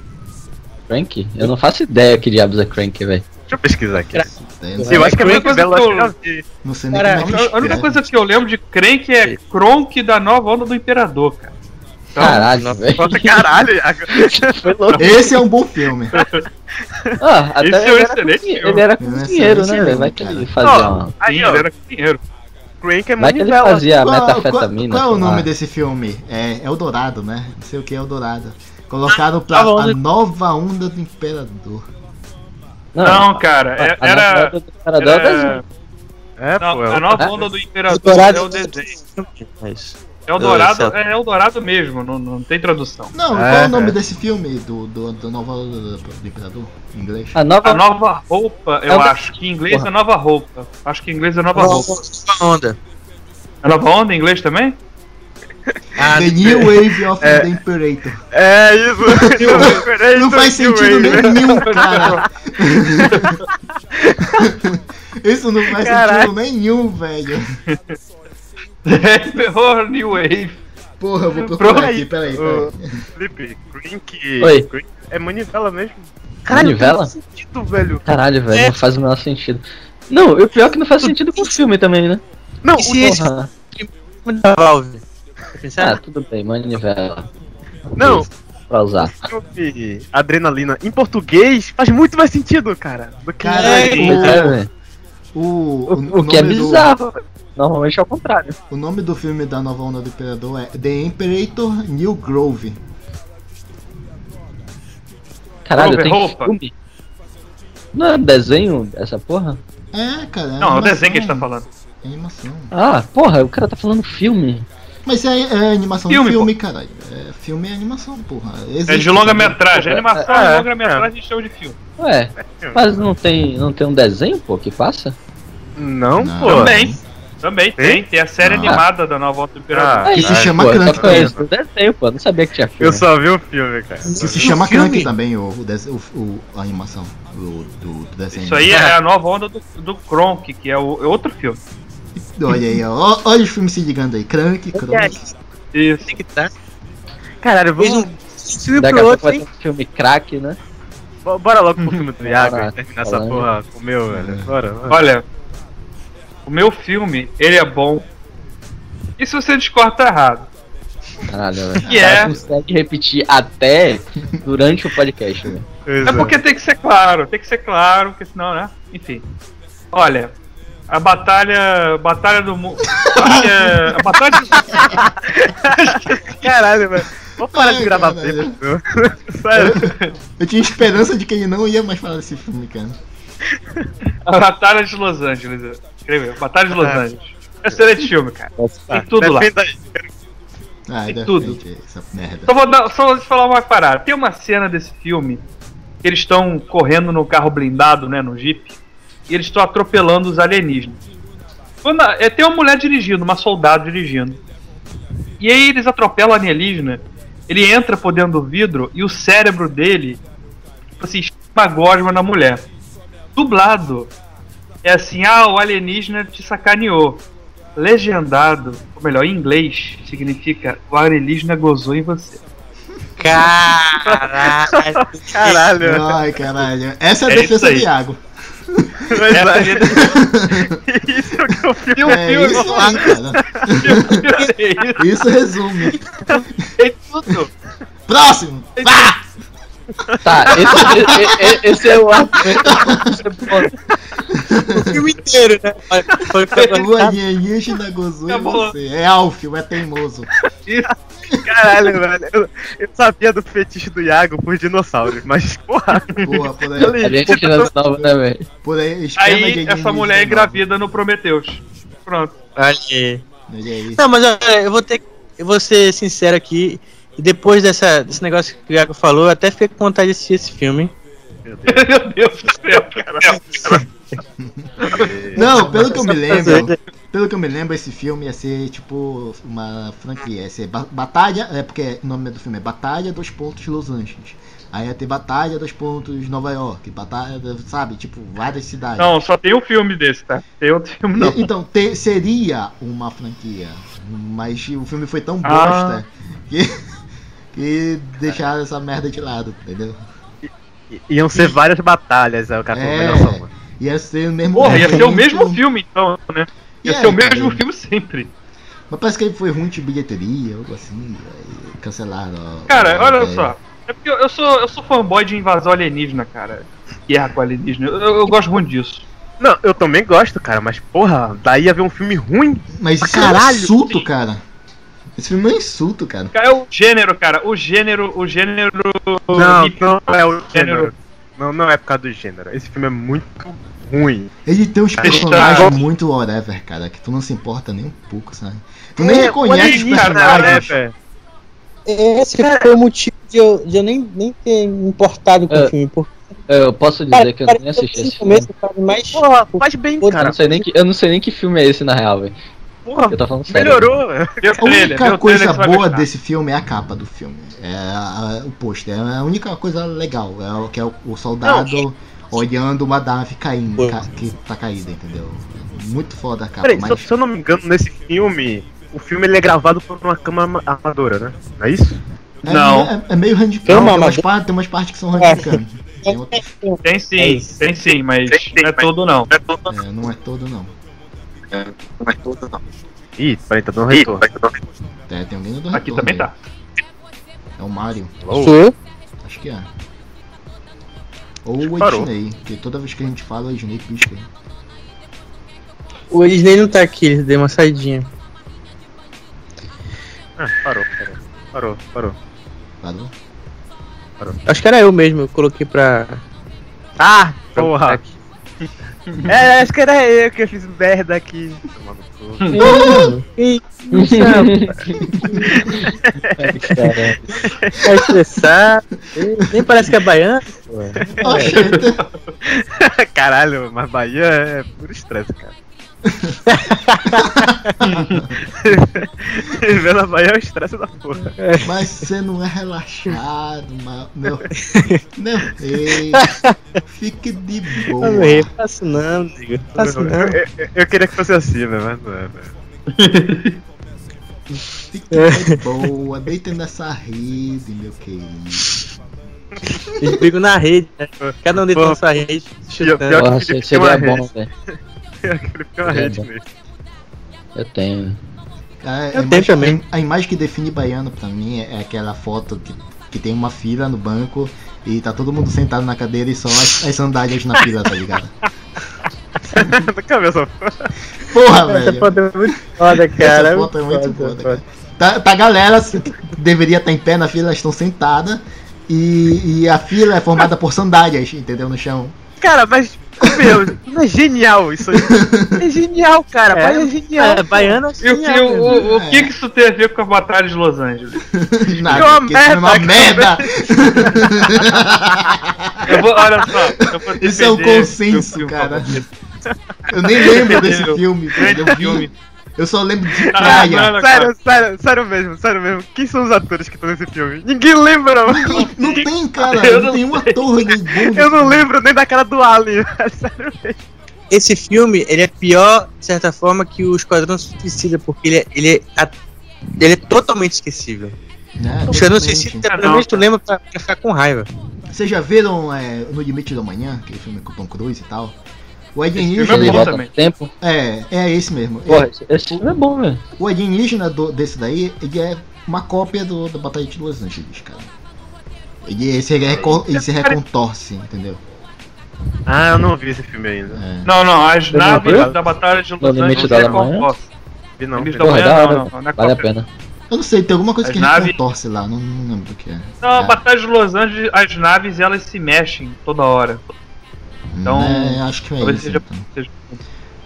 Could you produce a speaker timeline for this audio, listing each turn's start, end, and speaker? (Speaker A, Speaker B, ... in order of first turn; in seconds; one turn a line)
Speaker A: 0.9-3.2
Speaker B: 3.5-4.2
Speaker C: 4.1-5.5
Speaker D: 4.3-5.3
Speaker B: 4.9-6.4
Speaker E: 5.1-6.1
Speaker D: 6.6-8.1
Speaker C: 6.9-7.3
Speaker E: 7.2-11.5
Speaker E: 12.1-12.5
Speaker A: 12.2-13.5
Speaker C: 12.4-12.9
Speaker B: 12.9-14.6
Speaker A: 14.1-15.1
Speaker E: 14.9-15.3
Speaker D: 15.0-16.1
Speaker E: 16.1-16.4
Speaker A: 17.2-21.1
Speaker E: 17.6-18.8
Speaker D: 19.0-20.5
Speaker B: 20.6-21.7
Speaker E: 21.2-22.2
Speaker B: 22.8-23.9
Speaker A: 23.2-25.5
Speaker D: 24.0-31.9
Speaker C: 29.1-30.0
Speaker A: 32.9-35.6
Speaker E: 33.0-35.6
Speaker B: 36.4-37.4
Speaker E: 36.6-38.8
Speaker C: 37.9-40.9
Speaker E: 40.3-43.1
Speaker D: 43.1-47.4
Speaker B: 43.3-44.0
Speaker A: 47.4-47.8
Speaker E: 47.6-51.9
Speaker A: 48.9-49.9
Speaker C: 51.5-52.8
Speaker E: 53.6-54.8
Speaker C: 56.0-56.8
Speaker D: 56.0-58.2
Speaker B: 57.2-57.5
Speaker B: 58.3-62.1
Speaker D: 59.0-63.3
Speaker E: 59.4-59.8
Speaker E: 61.1-62.2
Speaker E: 63.1-63.4
Speaker B: 64.0-64.5
Speaker D: 64.3-67.5
Speaker B: 65.7-66.3
Speaker E: 67.7-67.9
Speaker E: 68.8-70.6
Speaker D: 71.0-72.9
Speaker E: 71.3-72.0
Speaker B: 71.7-78.0
Speaker A: 74.4-74.7
Speaker A: 76.5-77.1
Speaker A: 78.0-82.2
Speaker C: 78.5-78.8
Speaker C: 81.0-81.5
Speaker B: 82.6-83.1
Speaker C: 82.8-85.0
Speaker A: 82.9-83.5
Speaker C: 85.6-86.0
Speaker A: 85.8-87.3
Speaker B: 88.0-88.3
Speaker A: 88.0-89.3
Speaker B: 89.1-94.4
Speaker C: 93.4-94.4
Speaker D: 93.8-94.5
Speaker A: 93.9-94.7
Speaker D: 95.3-96.9
Speaker A: 95.9-98.5
Speaker D: 98.7-102.8
Speaker A: 105.7-106.7
Speaker E: 105.8-106.5
Speaker A: 107.9-109.6
Speaker D: 109.9-111.5
Speaker E: 110.6-111.7
Speaker D: 112.0-112.7
Speaker A: 112.7-114.7
Speaker D: 115.0-119.6
Speaker E: 116.1-116.5
Speaker E: 118.9-121.8
Speaker A: 119.7-120.2
Speaker B: 120.2-121.1
Speaker A: 122.0-125.2
Speaker B: 122.4-123.0
Speaker B: 125.8-126.7
Speaker D: 126.2-127.0
Speaker E: 126.4-130.1
Speaker B: 127.8-128.0
Speaker D: 128.4-128.8
Speaker B: 129.7-131.4
Speaker A: 130.0-133.0
Speaker D: 130.1-131.3
Speaker B: 132.8-134.6
Speaker C: 134.0-135.1
Speaker D: 134.2-138.8
Speaker E: 138.3-141.6
Speaker D: 142.3-145.2
Speaker C: 144.7-145.3
Speaker E: 145.7-146.1
Speaker C: 146.1-146.5
Speaker B: 147.4-148.1
Speaker C: 147.8-149.4
Speaker A: 148.8-150.6
Speaker B: 151.2-155.0
Speaker E: 151.8-152.1
Speaker A: 152.2-153.5
Speaker D: 154.1-154.5
Speaker E: 154.9-155.2
Speaker E: 156.4-158.1
Speaker E: 159.2-160.5
Speaker A: 161.3-165.7
Speaker E: 161.8-162.3
Speaker D: 161.8-162.5
Speaker B: 165.9-166.3
Speaker E: 166.0-169.2
Speaker E: 169.9-170.3
Speaker E: 170.9-175.0
Speaker D: 172.9-173.9
Speaker B: 174.9-179.9
Speaker E: 175.7-176.5
Speaker D: 177.4-178.6
Speaker D: 179.5-183.0
Speaker E: 179.8-180.1
Speaker B: 183.6-183.8
Speaker E: 184.2-189.5
Speaker B: 186.7-187.0
Speaker B: 188.6-190.1
Speaker D: 190.9-192.5
Speaker E: 191.1-191.6
Speaker E: 192.4-195.4
Speaker E: 196.0-198.7
Speaker E: 199.3-201.0
Speaker E: 201.8-204.4
Speaker E: 205.4-210.2
Speaker E: 211.0-212.7
Speaker E: 213.3-214.1
Speaker E: 214.8-222.4
Speaker C: 223.2-225.7
Speaker B: 224.7-226.2
Speaker D: 225.8-229.1
Speaker E: 227.3-227.9
Speaker B: 229.1-234.1
Speaker E: 229.3-230.2
Speaker D: 229.9-230.8
Speaker E: 231.9-233.2
Speaker D: 232.0-234.1
Speaker E: 233.7-235.2
Speaker D: 235.0-236.0
Speaker E: 236.8-237.5
Speaker D: 238.1-239.2
Speaker E: 238.8-239.1
Speaker A: 240.2-243.7
Speaker D: 240.7-241.5
Speaker D: 242.6-243.2
Speaker D: 244.3-245.0
Speaker C: 244.8-247.2
Speaker E: 246.5-246.8
Speaker D: 246.7-250.3
Speaker E: 248.3-248.7
Speaker B: 251.4-257.7
Speaker D: 256.2-257.3
Speaker A: 257.0-258.4
Speaker D: 258.6-260.6
Speaker E: 259.2-262.3
Speaker C: 262.6-263.2
Speaker D: 263.5-264.0
Speaker C: 263.9-270.9
Speaker B: 271.4-271.8
Speaker E: 271.7-273.8
Speaker C: 273.3-273.8
Speaker E: 274.8-275.1
Speaker B: 275.0-275.8
Speaker D: 275.3-289.1
Speaker C: 275.4-276.8
Speaker E: 289.0-291.5
Speaker D: 291.1-296.7
Speaker E: 295.4-296.0
Speaker D: 297.5-300.0
Speaker B: 300.4-303.5
Speaker D: 302.7-305.6
Speaker E: 304.5-308.3
Speaker D: 306.8-307.6
Speaker D: 308.9-313.5
Speaker E: 312.7-319.0
Speaker B: 319.4-323.7
Speaker D: 322.7-324.4
Speaker D: 325.2-326.3
Speaker E: 326.3-330.9
Speaker B: 329.3-334.3
Speaker D: 334.4-340.8
Speaker E: 335.0-335.8
Speaker B: 335.0-335.7
Speaker B: 339.0-340.9
Speaker E: 339.5-340.8
Speaker C: 341.9-346.1
Speaker B: 342.4-342.7
Speaker A: 346.5-348.5
Speaker C: 347.1-350.4
Speaker B: 349.1-350.4
Speaker A: 350.2-352.3
Speaker B: 352.8-354.5
Speaker A: 353.1-353.9
Speaker E: 354.4-356.1
Speaker D: 354.6-367.1
Speaker B: 361.4-361.8
Speaker B: 366.6-372.0
Speaker D: 372.4-376.4
Speaker E: 372.4-372.9
Speaker C: 373.6-374.2
Speaker C: 375.1-377.6
Speaker E: 376.8-379.3
Speaker D: 379.7-380.7
Speaker B: 382.1-382.4
Speaker B: 383.2-384.4
Speaker D: 385.1-386.3
Speaker E: 385.7-386.4
Speaker D: 387.6-388.1
Speaker B: 388.2-388.6
Speaker C: 388.4-388.7
Speaker D: 389.2-389.7
Speaker D: 391.4-394.3
Speaker B: 391.6-392.1
Speaker C: 396.1-398.1
Speaker B: 400.4-402.1
Speaker D: 402.8-403.1
Speaker C: 404.5-406.2
Speaker B: 407.0-408.0
Speaker C: 407.6-408.1
Speaker B: 409.3-412.6
Speaker E: 412.4-412.8
Speaker C: 412.5-415.8
Speaker D: 412.6-413.1
Speaker A: 413.9-415.0
Speaker B: 415.6-416.4
Speaker A: 416.4-417.2
Speaker C: 416.7-417.1
Speaker B: 417.4-418.1
Speaker C: 417.8-421.6
Speaker D: 421.2-422.0
Speaker E: 421.4-422.1
Speaker B: 422.5-425.5
Speaker C: 426.5-427.2
Speaker D: 427.2-428.2
Speaker E: 427.8-428.3
Speaker B: 428.6-431.3
Speaker C: 431.4-431.7
Speaker D: 431.6-434.4
Speaker C: 434.6-435.0
Speaker D: 435.1-436.3
Speaker D: 436.9-438.5
Speaker C: 438.0-440.3
Speaker B: 439.8-442.5
Speaker E: 442.9-443.6
Speaker D: 444.9-448.6
Speaker C: 445.1-445.6
Speaker C: 450.0-453.2
Speaker B: 451.2-452.0
Speaker B: 452.8-454.3
Speaker A: 453.1-454.5
Speaker B: 455.2-456.4
Speaker A: 455.9-456.2
Speaker A: 457.5-458.2
Speaker D: 458.8-468.3
Speaker C: 459.1-459.8
Speaker B: 469.4-470.9
Speaker D: 471.2-472.2
Speaker C: 471.7-474.6
Speaker D: 473.2-482.2
Speaker B: 482.4-487.8
Speaker D: 484.9-485.6
Speaker C: 486.0-488.8
Speaker E: 488.0-491.2
Speaker D: 488.8-489.3
Speaker D: 491.3-495.9
Speaker B: 491.9-494.5
Speaker E: 495.9-499.0
Speaker D: 497.2-499.0
Speaker D: 499.9-504.0
Speaker E: 500.1-502.1
Speaker E: 503.3-504.3
Speaker B: 503.4-509.0
Speaker D: 508.2-511.7
Speaker E: 509.4-510.7
Speaker B: 511.1-513.8
Speaker C: 514.3-519.1
Speaker C: 519.8-521.1
Speaker D: 521.6-522.7
Speaker C: 521.9-524.5
Speaker E: 522.7-523.2
Speaker D: 524.9-528.3
Speaker D: 528.9-529.9
Speaker E: 529.2-530.1
Speaker A: 529.5-530.5
Speaker D: 530.6-532.6
Speaker A: 531.9-533.2
Speaker D: 533.4-537.9
Speaker D: 538.8-541.4
Speaker B: 539.5-539.7
Speaker E: 539.9-540.4
Speaker B: 542.5-543.9
Speaker D: 543.7-544.1
Speaker E: 544.0-547.3
Speaker A: 544.7-545.4
Speaker B: 544.8-545.7
Speaker A: 546.0-547.1
Speaker B: 546.3-546.8
Speaker B: 547.8-548.4
Speaker E: 547.9-549.5
Speaker A: 548.2-549.7
Speaker D: 550.1-553.4
Speaker E: 550.8-551.4
Speaker E: 553.0-556.7
Speaker D: 557.5-559.3
Speaker E: 557.6-559.8